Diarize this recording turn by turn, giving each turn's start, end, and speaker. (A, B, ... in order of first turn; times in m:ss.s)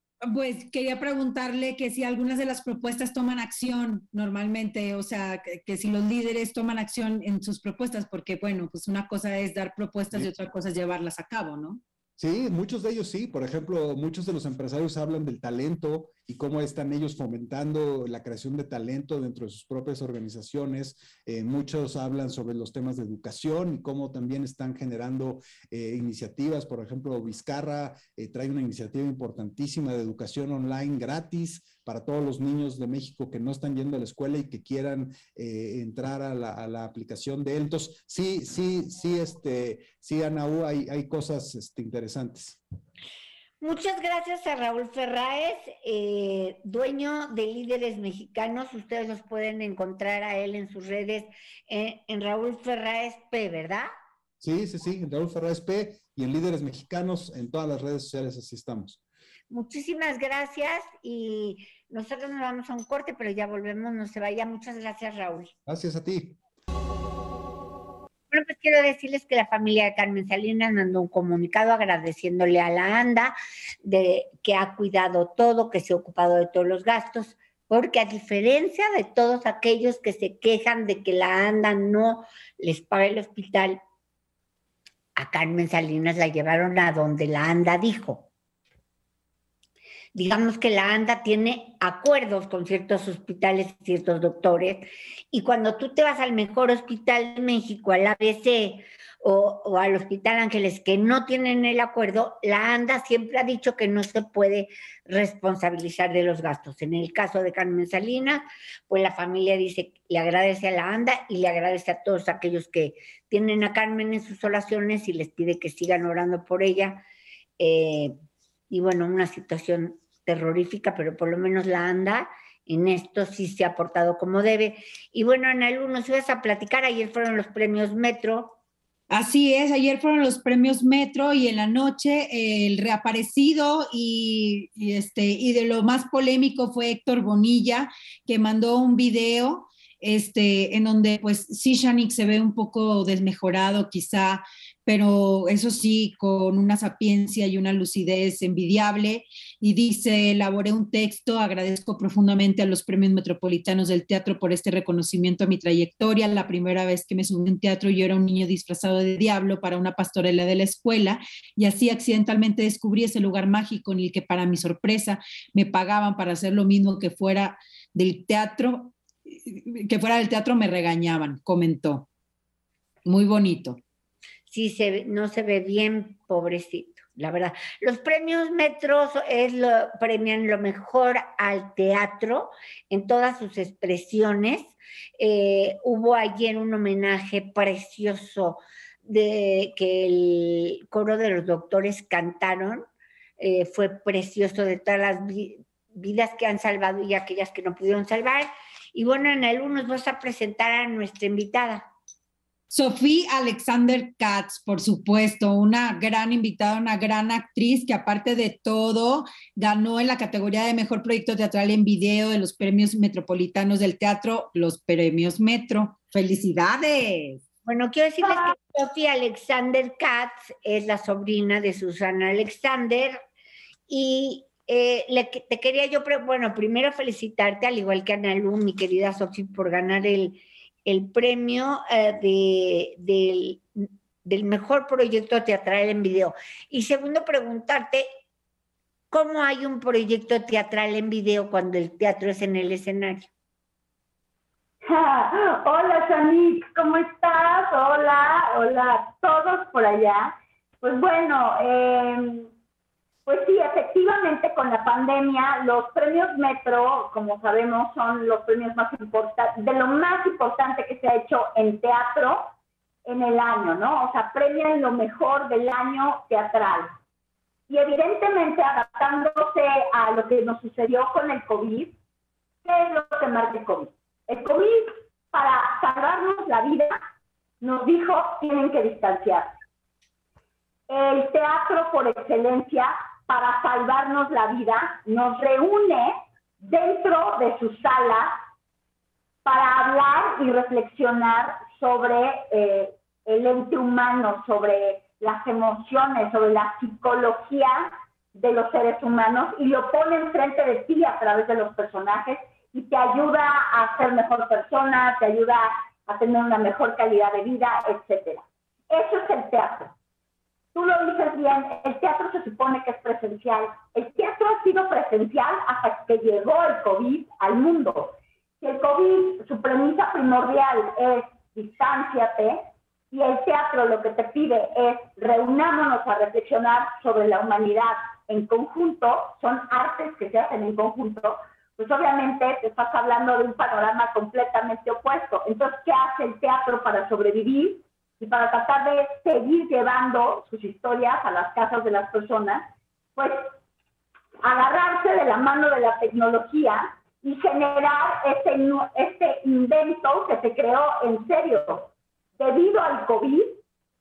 0:00.2-0:11.8 A
0:12.2-0:42.6 B
0:43.6-0:53.9 C
0:54.4-0:59.0 B
0:59.5-1:05.5 C
1:05.7-1:06.4 B
1:08.3-1:23.8 C
1:25.2-1:28.3 C
1:30.2-1:57.0 C
1:57.6-1:58.2 C
1:58.7-2:08.6 C
2:09.1-2:52.1 A
2:53.0-2:53.8 A
2:54.5-3:12.9 C
3:13.4-3:21.9 C
3:22.7-3:37.4 A
3:37.7-3:43.2 C
3:38.2-3:38.5 D
3:43.9-3:58.1 C
3:59.1-4:03.3 C
4:04.8-4:12.5 D
4:13.3-4:22.5 D
4:23.0-4:26.9 D
4:27.7-4:31.9 D
4:32.6-4:37.0 D
4:37.6-4:39.5 D
4:40.9-4:48.4 D
4:49.4-5:09.9 D
5:10.7-5:43.5 D
5:44.4-5:53.6 D